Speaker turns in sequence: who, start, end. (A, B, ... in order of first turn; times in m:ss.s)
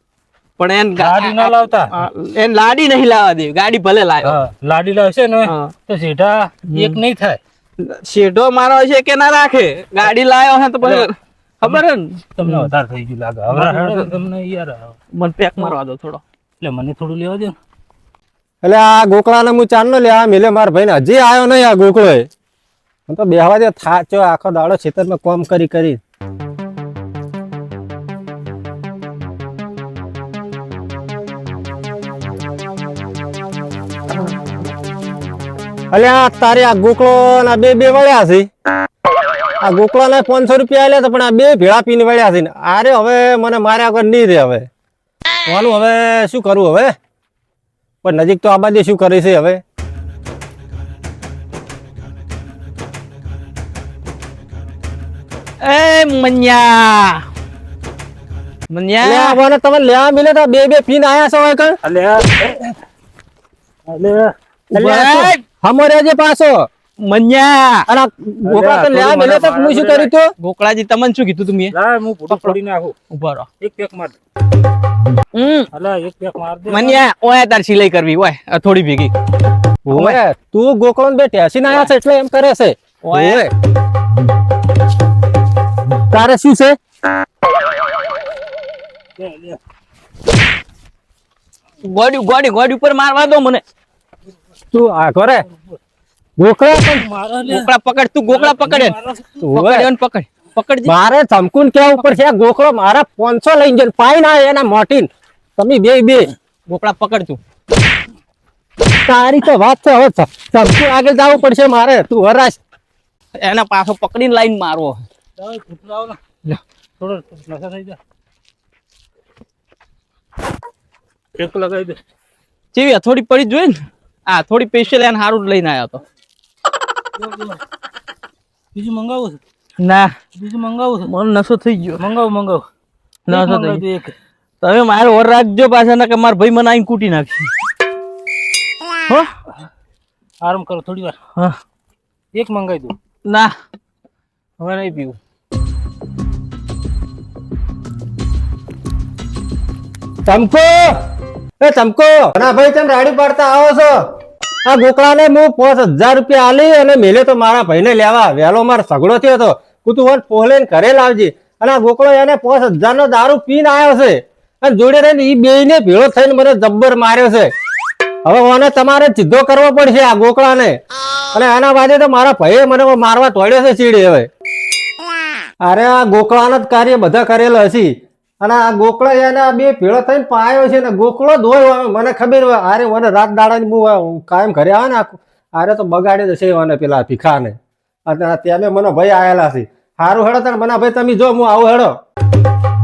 0:00.6-0:04.4 A
0:01.0-0:01.9 B
0:04.2-0:07.4 B
0:05.4-0:05.7 A
0:06.7-0:07.0 A
0:07.8-0:11.1 A
0:11.6-0:12.7 A
0:12.4-0:14.9 B
0:13.5-0:14.1 A
0:15.2-0:16.2 A
0:16.6-0:17.6 B
0:18.6-0:22.3 C
0:23.1-0:26.0 C
0:35.9-0:38.5 C
0:39.6-0:44.7 C
0:45.5-0:46.9 C
0:48.0-0:49.6 C
0:55.6-0:57.2 A
0:58.7-0:59.4 A
0:59.0-1:01.8 C
1:01.8-1:02.7 B
1:03.9-1:04.3 B
1:04.7-1:05.4 A
1:04.7-1:06.7 C
1:07.0-1:07.8 A
1:07.9-1:10.3 C
1:08.5-1:10.1 B
1:10.4-1:11.7 A
1:11.7-1:12.9 B
1:12.3-1:12.6 A
1:13.1-1:13.5 A
1:13.6-1:14.1 B
1:15.3-1:15.7 A
1:15.7-1:17.0 B
1:16.7-1:19.1 A
1:19.8-1:23.5 C
1:19.9-1:20.2 A
1:23.0-1:23.4 A
1:26.1-1:26.8 C
1:29.2-1:29.6 B
1:31.8-1:33.6 A
1:34.7-1:35.4 C
1:36.4-1:37.0 C
1:36.9-1:37.7 B
1:37.5-1:38.9 A
1:38.3-1:39.4 B
1:39.4-1:39.9 C
1:39.5-1:40.9 A
1:40.9-1:46.3 C
1:46.7-1:47.4 A
1:49.0-1:52.6 C
1:53.4-1:55.0 A
1:55.4-1:56.2 B
1:57.0-1:58.0 B
2:01.4-2:02.0 B
2:02.7-2:06.0 A
2:07.2-2:07.6 B
2:08.7-2:09.4 B
2:09.8-2:10.1 A
2:10.4-2:11.1 B
2:11.0-2:12.0 A
2:12.0-2:12.6 B
2:13.3-2:13.8 A
2:13.3-2:14.1 B
2:14.6-2:17.5 A
2:20.4-2:21.2 B
2:22.3-2:22.9 B
2:23.3-2:23.5 A
2:24.6-2:25.2 A
2:30.2-2:30.9 C
2:31.6-2:34.0 C
2:34.6-2:47.5 C
2:48.2-2:50.8 C
2:51.3-2:54.3 C
2:55.6-3:07.6 C
3:08.1-3:11.9 C